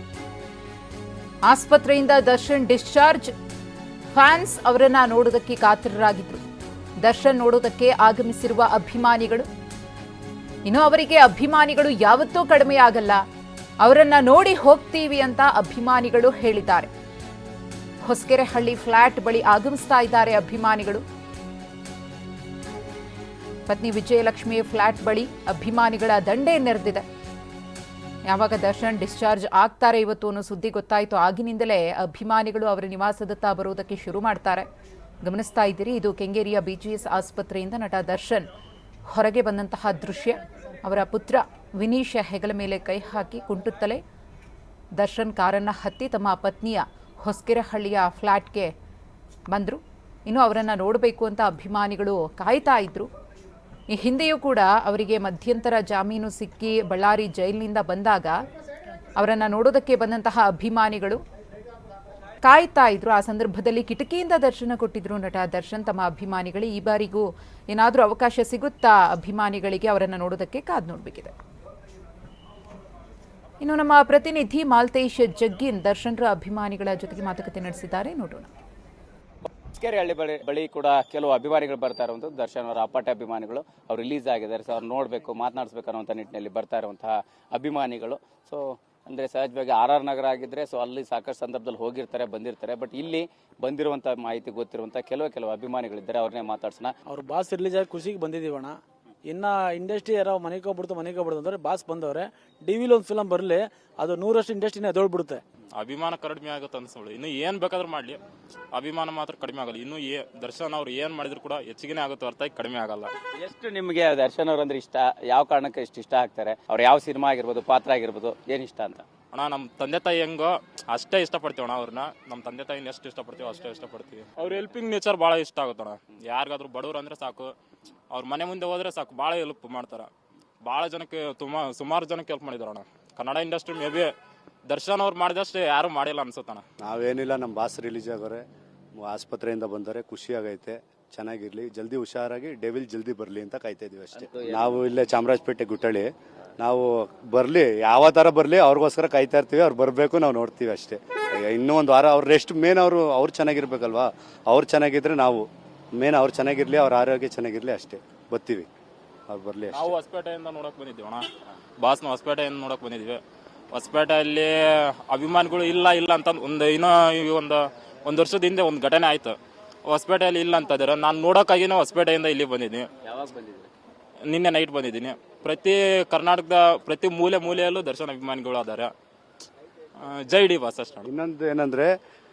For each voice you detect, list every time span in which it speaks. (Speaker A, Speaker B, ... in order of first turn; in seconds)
Speaker A: 1.5-3.3, 4.1-6.5, 7.0-9.5, 10.7-13.2, 13.8-16.9, 18.0-21.0, 23.7-27.0, 28.3-34.7, 35.2-38.5, 39.1-44.0, 45.0-48.7, 49.5-53.1, 53.9-58.4, 59.2-61.2, 62.4-71.3, 73.6-78.5
Speaker B: 79.7-96.9, 113.4-119.0, 144.2-144.8, 173.1-173.7
Speaker C: 97.1-105.4
Speaker D: 105.8-108.2, 108.7-113.1, 119.3-127.5, 128.1-130.1, 130.6-134.1, 134.7-136.6, 159.7-161.3, 161.8-163.2, 163.7-164.5, 165.1-172.9, 174.3-178.9, 180.0-181.1
Speaker E: 136.8-138.4, 139.0-155.4, 156.0-158.7, 159.3-159.9, 181.1-181.9